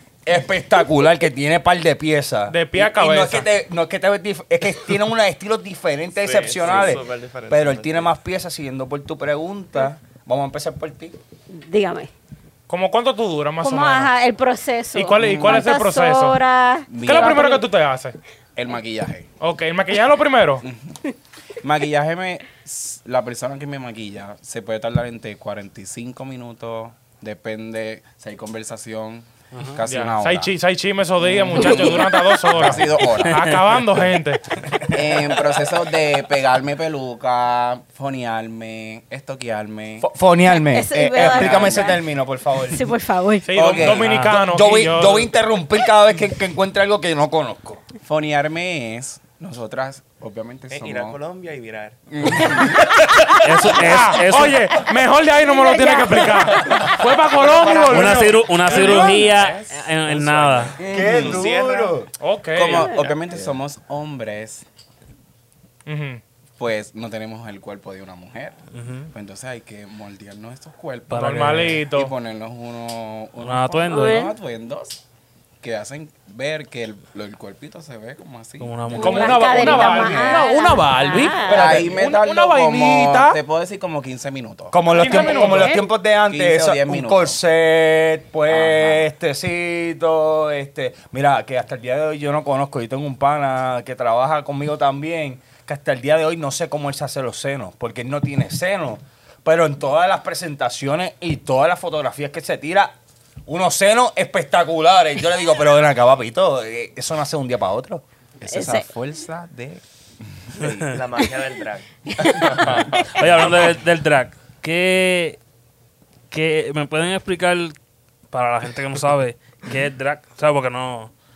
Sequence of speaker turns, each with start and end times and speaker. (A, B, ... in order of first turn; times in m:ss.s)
0:00.2-0:11.2 A
0:02.5-0:03.5 B
0:06.2-0:08.1 C
0:11.5-0:12.1 D
0:12.7-0:14.1 B
0:13.6-0:17.6 D
0:14.9-0:16.4 B
0:15.2-0:15.6 E
0:16.9-0:17.6 E
0:17.0-0:18.2 B
0:18.5-0:19.3 E
0:19.4-0:20.6 B
0:20.6-0:21.0 E
0:21.6-0:30.5 E
0:29.8-0:34.4 B
0:31.2-0:33.6 E
0:34.9-0:40.1 E
0:40.0-0:42.8 A
0:40.5-0:42.0 D
0:41.2-0:42.0 E
0:42.7-0:43.5 D
0:43.4-0:45.3 B
0:43.5-0:44.1 E
0:43.8-0:47.8 A
0:43.9-0:44.4 F
0:48.0-0:51.2 E
0:50.7-0:52.4 C
0:52.1-0:52.9 E
0:53.4-0:54.8 F
0:53.7-0:59.2 B
0:55.4-0:56.8 D
0:57.4-0:58.3 E
0:57.9-1:00.8 F
0:58.6-1:01.9 C
1:00.8-1:02.1 A
1:00.9-1:01.4 E
1:02.2-1:02.9 B
1:02.5-1:04.6 E
1:05.8-1:06.2 B
1:06.6-1:15.0 E
1:08.7-1:09.1 F
1:11.1-1:11.8 F
1:11.1-1:12.1 B
1:13.4-1:14.2 F
1:13.9-1:14.3 D
1:15.6-1:19.3 E
1:18.6-1:19.9 F
1:18.9-1:21.8 D
1:19.0-1:23.4 B
1:21.4-1:27.4 E
1:24.7-1:42.9 A
1:24.9-1:25.8 B
1:28.5-1:29.1 E
1:43.5-1:48.0 A
1:48.4-1:51.0 E
1:48.5-1:48.9 D
1:50.9-1:53.4 C
1:52.1-1:52.5 D
1:53.0-1:55.4 F
1:56.3-1:57.7 F
1:58.3-2:01.1 F